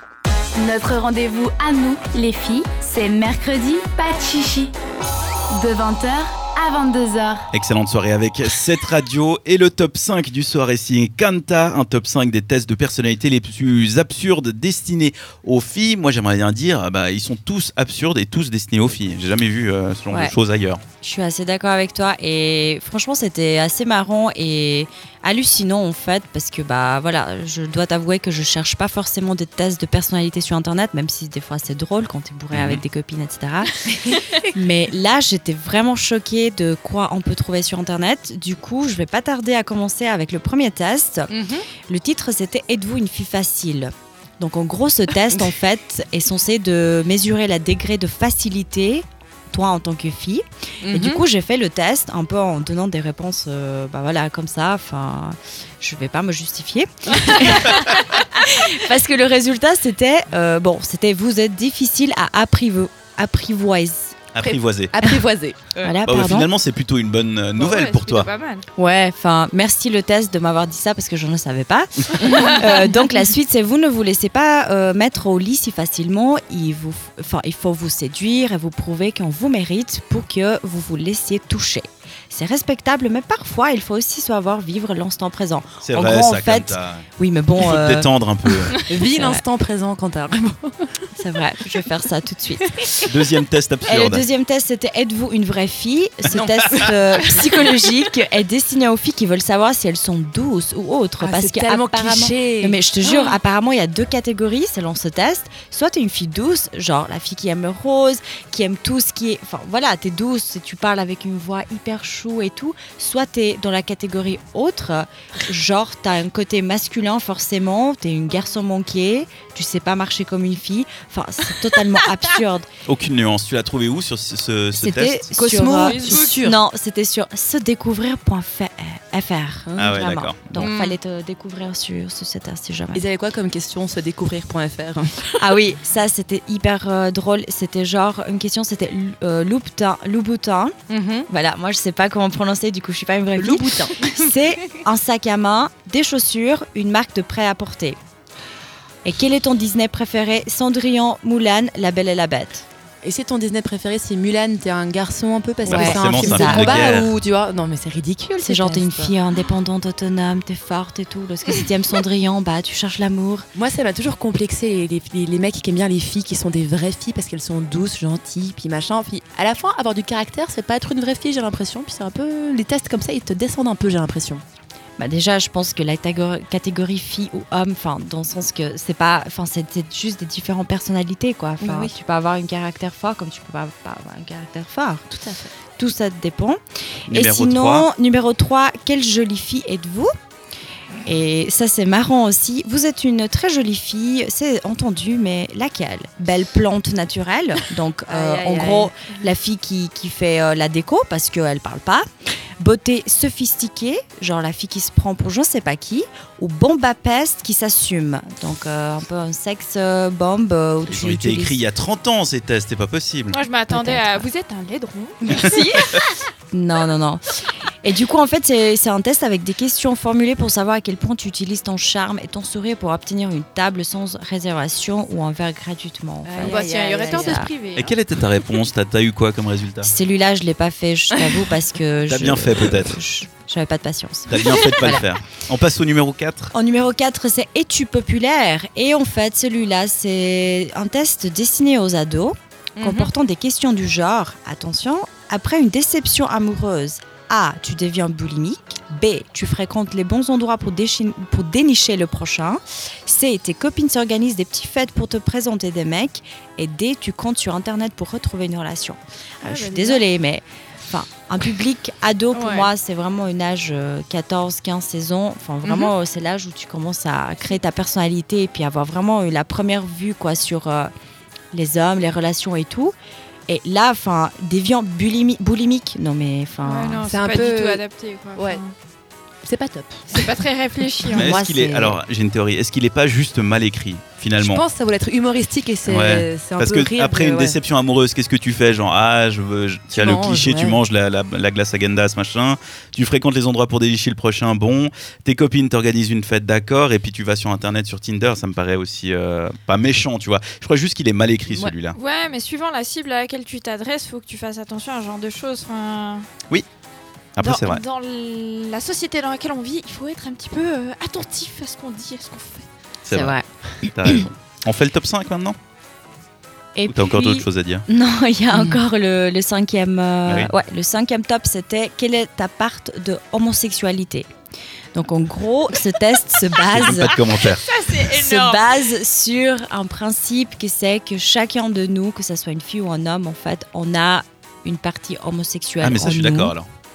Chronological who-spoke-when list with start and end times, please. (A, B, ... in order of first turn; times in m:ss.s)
0:00.5-0:04.7 A
0:05.5-0:07.5 A
0:07.5-0:20.8 B
0:20.1-0:20.3 C
0:21.0-0:41.3 C
0:32.5-0:32.8 B
0:41.3-0:41.7 D
0:41.9-1:04.2 C
0:50.8-0:51.2 D
1:04.3-1:04.9 B
1:04.4-1:05.9 D
1:05.8-1:06.5 C
1:06.0-1:08.3 B
1:07.5-1:08.7 E
1:08.8-1:28.1 C
1:25.8-1:27.0 B
1:27.6-1:28.8 B
1:28.8-1:31.0 D
1:29.1-1:29.4 C
1:31.1-1:32.8 C
1:33.0-1:34.2 B
1:33.9-2:02.7 C
1:36.3-1:37.7 D
1:41.2-1:43.3 D
2:02.8-2:05.2 B
2:04.7-2:13.0 C
2:05.3-2:06.6 D
2:05.8-2:06.4 E
2:09.7-2:09.9 D
2:09.8-2:10.5 B
2:10.5-2:11.0 D
2:12.9-2:15.5 D
2:15.4-2:20.7 C
2:20.9-2:21.3 D
2:21.3-2:28.0 C
2:23.4-2:24.1 D
2:29.0-2:32.6 C
2:33.0-2:39.1 D
2:35.6-2:37.0 C
2:35.6-2:37.2 B
2:38.4-2:43.5 C
2:43.5-2:54.4 D
2:55.0-3:05.0 C
3:01.6-3:01.9 D
3:05.1-3:05.5 D
3:05.8-3:10.1 C
3:07.1-3:07.9 B
3:11.0-3:22.0 C
3:18.1-3:18.9 D
3:22.6-3:31.6 C
3:30.9-3:33.4 B
3:33.3-3:36.0 E
3:33.7-3:34.3 C
3:36.5-3:37.2 C
3:37.8-3:47.5 C
3:46.2-3:47.5 D
3:46.4-3:47.9 E
3:47.7-3:49.9 B
3:49.8-3:55.0 C
3:52.1-3:53.0 B
3:54.3-3:56.5 B
3:56.5-4:30.9 C
4:02.8-4:03.1 D
4:19.4-4:20.0 E
4:22.3-4:22.7 E
4:25.6-4:25.9 D
4:31.5-4:32.9 C
4:33.5-4:37.0 C
4:36.6-4:38.7 E
4:37.0-4:37.8 D
4:38.4-4:38.6 D
4:39.4-4:41.0 D
4:40.1-4:41.3 E
4:41.1-4:44.6 B
4:41.2-4:42.0 C
4:44.4-4:47.6 D
4:45.9-5:02.0 B
4:49.9-4:50.8 D
5:01.9-5:06.3 E
5:07.4-5:07.8 B
5:07.4-5:12.7 E
5:13.0-5:15.6 B
5:13.1-5:13.4 C
5:14.0-5:14.2 C
5:16.8-5:24.3 C
5:16.9-5:17.8 B
5:20.2-5:20.5 B
5:24.9-5:27.2 C
5:26.6-5:27.6 B
5:27.5-5:28.6 E
5:28.1-5:36.5 C
5:35.8-5:36.7 B